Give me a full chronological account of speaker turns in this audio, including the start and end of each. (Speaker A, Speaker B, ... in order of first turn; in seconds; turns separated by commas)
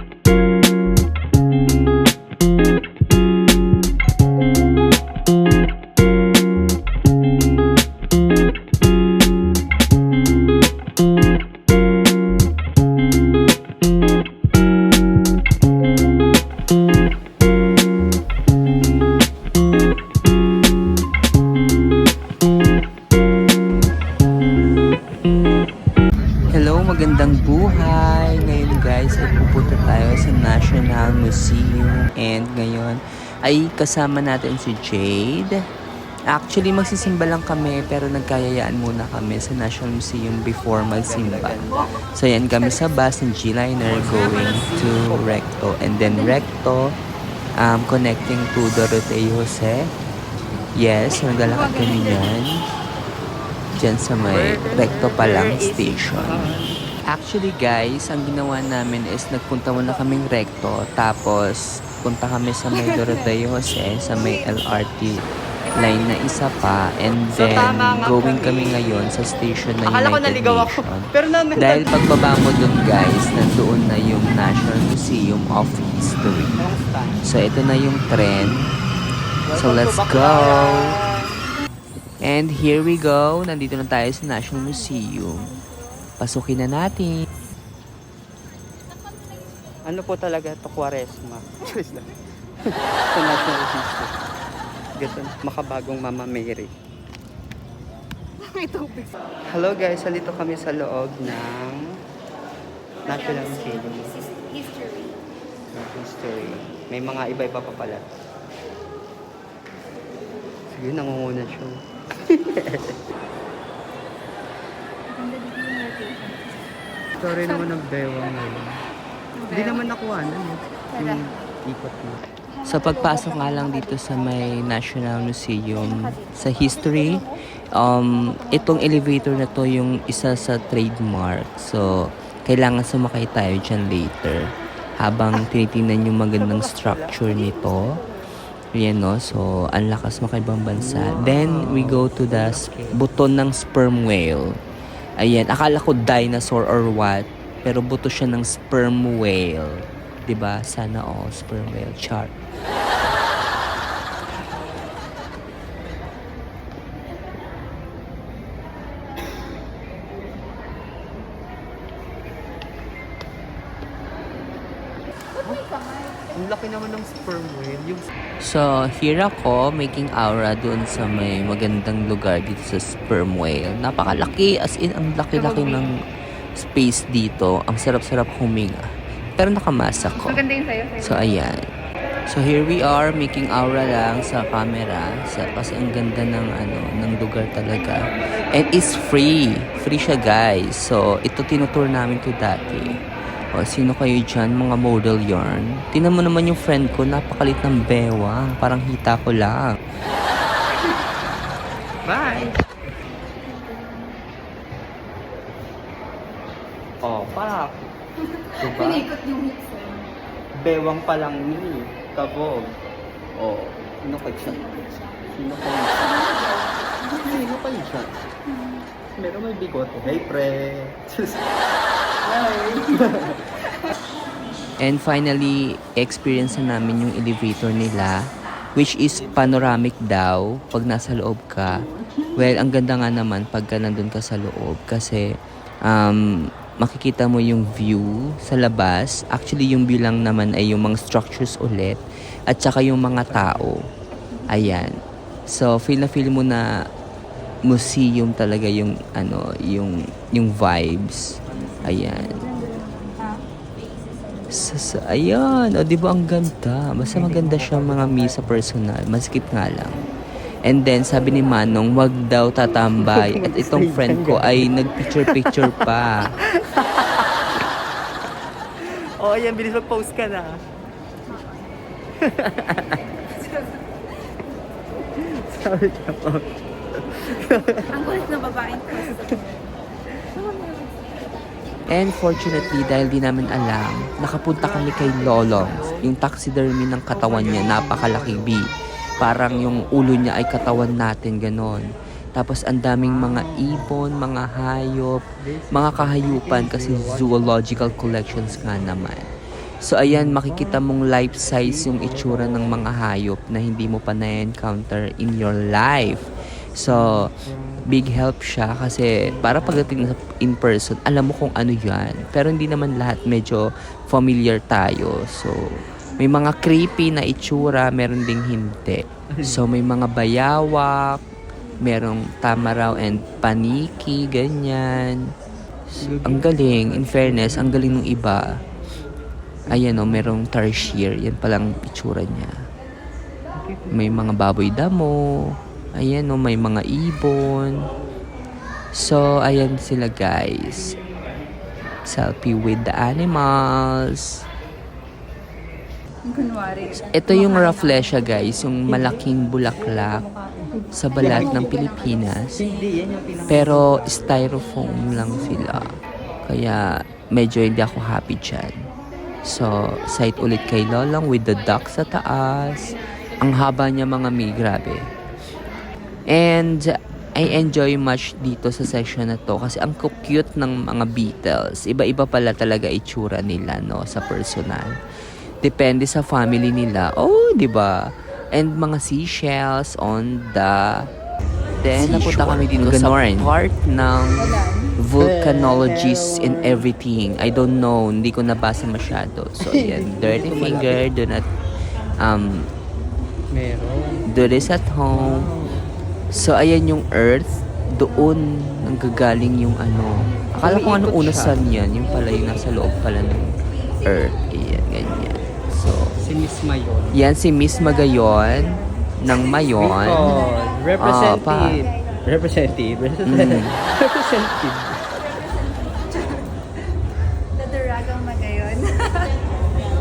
Speaker A: 26.5-35.5, Speaker A: 36.3-46.9, Speaker B: 41.0-42.0, Speaker B: 43.8-45.4, Speaker A: 47.6-49.8, Speaker A: 50.8-52.6, Speaker C: 51.5-52.0, Speaker A: 53.7-56.4, Speaker B: 54.2-56.8, Speaker A: 57.1-76.6, Speaker C: 65.7-66.8, Speaker B: 67.3-68.8, Speaker B: 69.9-71.9, Speaker B: 76.6-77.3, Speaker A: 77.2-78.7, Speaker B: 79.5-81.4, Speaker A: 79.5-81.0, Speaker A: 82.2-85.5, Speaker C: 84.8-85.8, Speaker A: 86.2-87.1, Speaker B: 89.9-92.1, Speaker B: 92.7-94.1, Speaker B: 95.0-96.7, Speaker C: 98.4-99.1, Speaker B: 99.5-101.8, Speaker B: 103.1-104.2, Speaker C: 103.1-105.2, Speaker B: 105.7-108.1, Speaker B: 110.7-111.8, Speaker B: 112.3-113.0, Speaker C: 115.1-116.8, Speaker B: 117.2-118.8, Speaker C: 119.4-119.8, Speaker B: 119.5-122.2, Speaker C: 120.8-121.4, Speaker C: 122.5-124.3, Speaker A: 122.7-138.0, Speaker C: 125.8-127.3, Speaker C: 128.3-129.0, Speaker C: 130.2-130.6, Speaker B: 136.4-137.3, Speaker C: 137.7-138.0, Speaker A: 138.7-144.5, Speaker B: 140.8-143.0, Speaker A: 145.2-152.3, Speaker C: 165.4-166.3, Speaker B: 166.3-168.1, Speaker A: 168.4-175.9, Speaker C: 175.4-175.9, Speaker A: 176.6-178.9, Speaker A: 179.4-180.4, Speaker C: 180.2-181.2, Speaker A: 181.0-181.6, Speaker A: 182.3-193.0, Speaker A: 193.5-199.7, Speaker B: 202.1-202.6, Speaker C: 203.5-204.1, Speaker B: 207.0-207.9, Speaker C: 208.4-210.1, Speaker B: 208.6-209.1, Speaker B: 210.6-212.8, Speaker B: 213.4-214.7, Speaker C: 214.5-215.2, Speaker B: 215.3-216.3, Speaker C: 216.2-217.2, Speaker B: 217.1-218.3, Speaker B: 219.2-221.4, Speaker C: 222.3-223.0, Speaker B: 222.8-223.4, Speaker A: 224.8-231.8, Speaker B: 229.3-229.6, Speaker A: 232.3-235.2, Speaker A: 235.9-236.2, Speaker A: 236.8-243.8, Speaker B: 243.1-243.8, Speaker A: 244.5-244.9, Speaker A: 245.5-246.6, Speaker A: 247.7-252.4, Speaker B: 251.6-251.9, Speaker C: 252.2-253.4, Speaker C: 254.2-254.5, Speaker A: 254.5-260.0, Speaker B: 257.1-258.4, Speaker A: 260.6-266.4, Speaker B: 262.9-265.9, Speaker B: 266.4-267.5, Speaker B: 268.8-270.6, Speaker B: 272.2-273.1, Speaker C: 273.4-273.7, Speaker B: 275.1-278.2, Speaker C: 277.9-279.6, Speaker B: 278.9-279.4, Speaker C: 280.4-280.8, Speaker A: 281.9-299.3, Speaker B: 284.6-286.1, Speaker B: 287.1-288.6, Speaker B: 293.0-294.0, Speaker B: 295.5-297.9, Speaker A: 299.8-307.3, Speaker B: 300.1-300.8, Speaker B: 301.4-302.8, Speaker A: 307.9-315.6, Speaker B: 309.4-309.9, Speaker A: 316.2-321.2, Speaker B: 319.3-319.6, Speaker A: 321.8-325.2, Speaker A: 325.9-328.4, Speaker B: 326.0-328.1, Speaker B: 329.7-330.3, Speaker A: 329.7-332.6, Speaker B: 333.6-334.3, Speaker A: 333.9-337.8, Speaker A: 338.9-340.9, Speaker A: 342.1-344.4, Speaker C: 346.2-348.2, Speaker A: 347.1-350.3, Speaker C: 350.1-352.7, Speaker A: 350.9-352.7, Speaker B: 351.2-351.8, Speaker B: 352.6-354.5, Speaker A: 353.5-355.9, Speaker A: 356.5-358.8, Speaker A: 359.4-365.0, Speaker A: 366.3-374.9, Speaker A: 375.6-377.9, Speaker A: 378.5-380.9, Speaker A: 381.8-391.4, Speaker B: 382.0-383.1, Speaker C: 384.4-384.9, Speaker B: 385.2-386.9, Speaker B: 389.7-391.0, Speaker A: 392.2-392.6, Speaker B: 393.5-394.3, Speaker A: 394.3-395.5, Speaker B: 395.1-395.9, Speaker A: 396.3-406.2, Speaker B: 400.6-401.7, Speaker B: 406.2-407.2, Speaker A: 407.1-410.4, Speaker C: 408.2-408.9, Speaker B: 409.8-415.2, Speaker C: 410.2-410.6, Speaker A: 411.0-411.8, Speaker C: 411.8-412.2, Speaker A: 413.2-413.8, Speaker C: 415.2-416.5, Speaker C: 417.6-419.4